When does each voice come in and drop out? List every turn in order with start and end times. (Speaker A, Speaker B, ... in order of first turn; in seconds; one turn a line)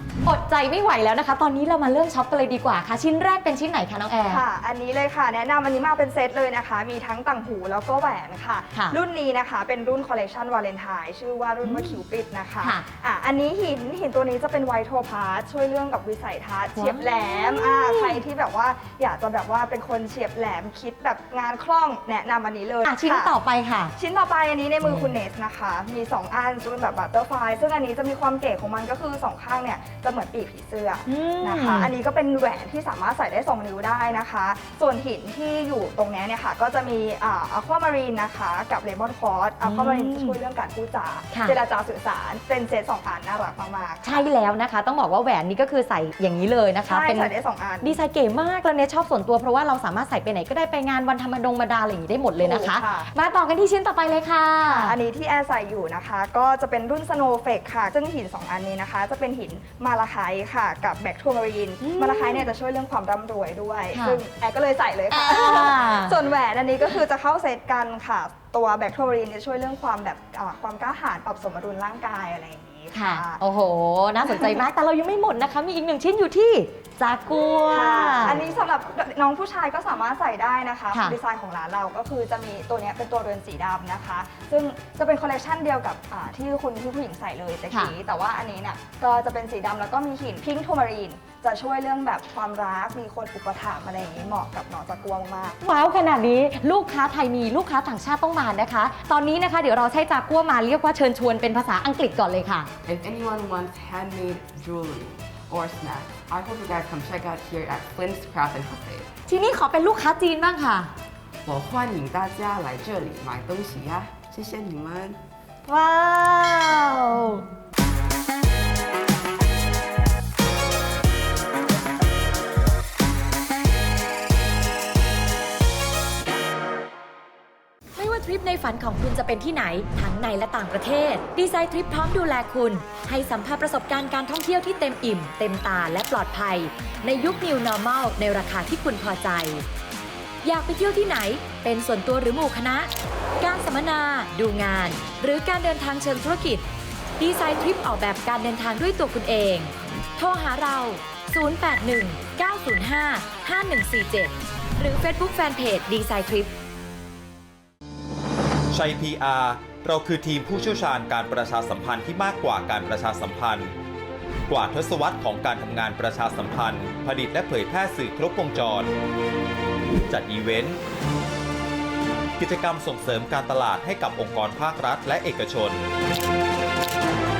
Speaker A: 0.2-4.4
Speaker B: 4.3-23.3
Speaker A: 8.7-9.0
Speaker A: 11.6-12.0
Speaker A: 16.8-18.2
Speaker A: 22.9-23.9
Speaker B: 23.9-44.2
Speaker A: 24.8-25.1
Speaker A: 31.1-31.9
Speaker A: 39.6-40.4
Speaker A: 44.0-54.9
Speaker B: 46.9-47.9
Speaker B: 52.4-53.1
Speaker B: 54.6-73.4
Speaker A: 61.8-62.5
Speaker A: 63.9-64.2
Speaker A: 65.1-66.1
Speaker A: 72.9-78.4
Speaker B: 77.7-95.6
Speaker A: 95.6-102.7
Speaker C: 102.8-109.1
Speaker A: 109.3-110.9
Speaker C: 111.4-115.2
Speaker A: 115.7-117.4
Speaker D: 128.0-139.7
Speaker D: 140.4-146.6
Speaker D: 147.2-156.5
Speaker E: 158.7-163.7
Speaker E: 164.5-168.9
Speaker E: 170.1-170.8
Speaker E: 172.4-175.9